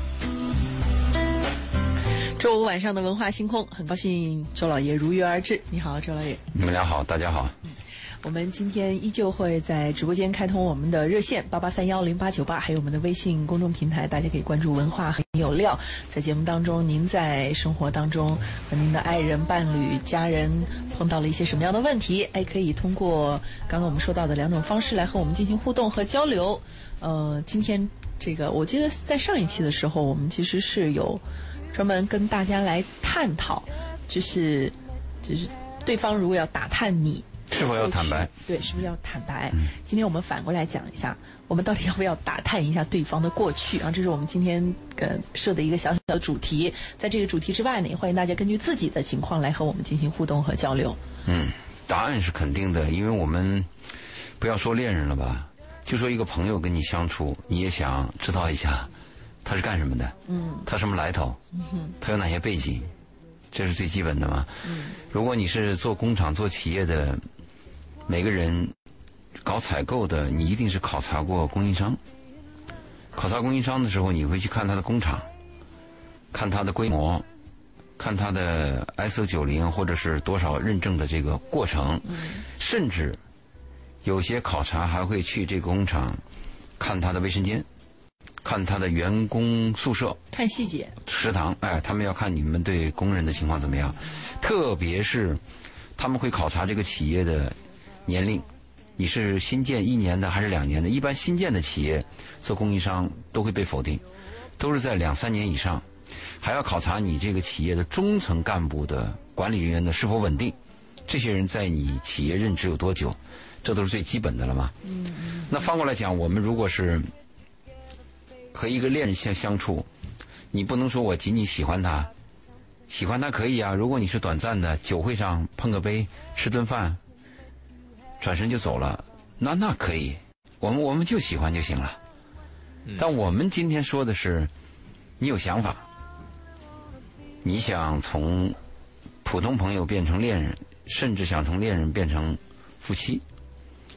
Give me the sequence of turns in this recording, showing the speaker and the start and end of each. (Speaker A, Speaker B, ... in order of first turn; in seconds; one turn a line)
Speaker A: 2.4-6.4
Speaker B: 6.5-7.5
Speaker A: 8.2-51.0
Speaker B: 37.5-38.3
Speaker B: 51.2-53.7
Speaker B: 54.4-58.9
Speaker B: 59.4-61.4
Speaker A: 60.3-60.6
Speaker A: 61.5-61.9
Speaker B: 62.0-62.9
Speaker B: 63.5-67.2
Speaker A: 64.6-65.0
Speaker B: 68.1-68.7
Speaker B: 69.4-72.0
Speaker B: 73.1-75.3
Speaker B: 76.3-77.2
Speaker B: 78.0-83.2
Speaker A: 82.1-82.4
Speaker B: 84.0-86.2
Speaker B: 86.8-87.7
Speaker B: 88.4-90.2
Speaker A: 90.3-90.9
Speaker B: 91.0-95.4
Speaker B: 96.0-98.5
Speaker B: 99.0-104.0
Speaker B: 104.6-105.9
Speaker B: 106.4-110.5
Speaker B: 111.1-114.8
Speaker A: 114.8-115.5
Speaker B: 115.5-117.1
Speaker B: 118.5-119.9
Speaker B: 120.5-122.1
Speaker B: 122.9-127.0
Speaker B: 128.2-132.0
Speaker B: 133.0-134.5
Speaker B: 135.2-135.8
Speaker B: 137.4-138.6
Speaker B: 139.2-143.2